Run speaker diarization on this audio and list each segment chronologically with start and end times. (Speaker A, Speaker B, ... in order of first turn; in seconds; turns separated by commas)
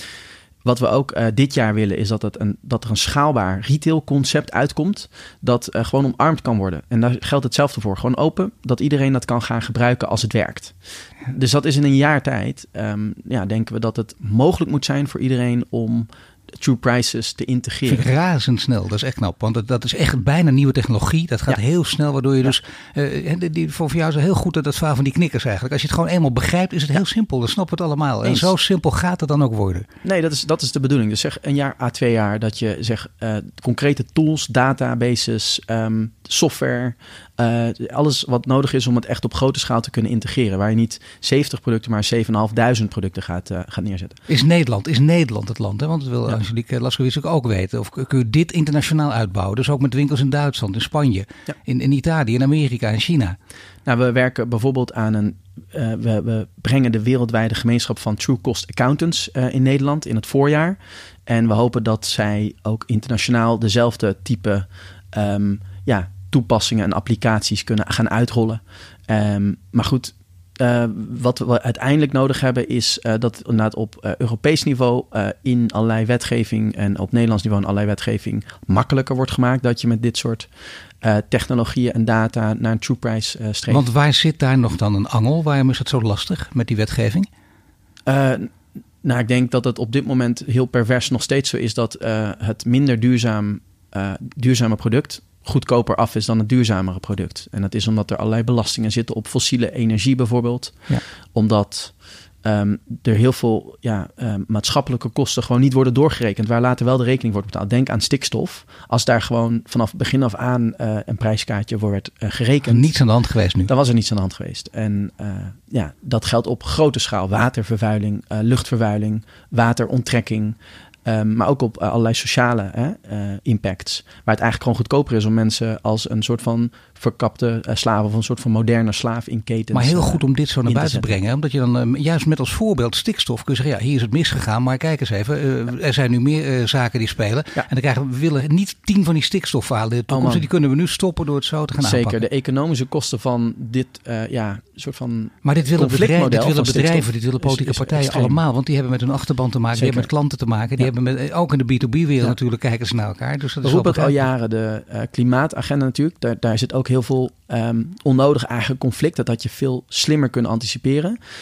Speaker A: 0.6-18.1, Speaker B: 17.9-29.9, Speaker A: 28.2-28.5, Speaker A: 30.0-44.2, Speaker B: 44.3-53.4, Speaker A: 53.9-80.5, Speaker A: 81.0-83.9, Speaker B: 83.7-87.3, Speaker A: 88.1-112.9, Speaker B: 112.7-113.7, Speaker A: 113.7-131.1, Speaker B: 129.7-142.2, Speaker A: 140.1-140.5, Speaker A: 141.8-148.4, Speaker B: 145.4-154.2, Speaker A: 149.7-150.1, Speaker A: 153.6-161.2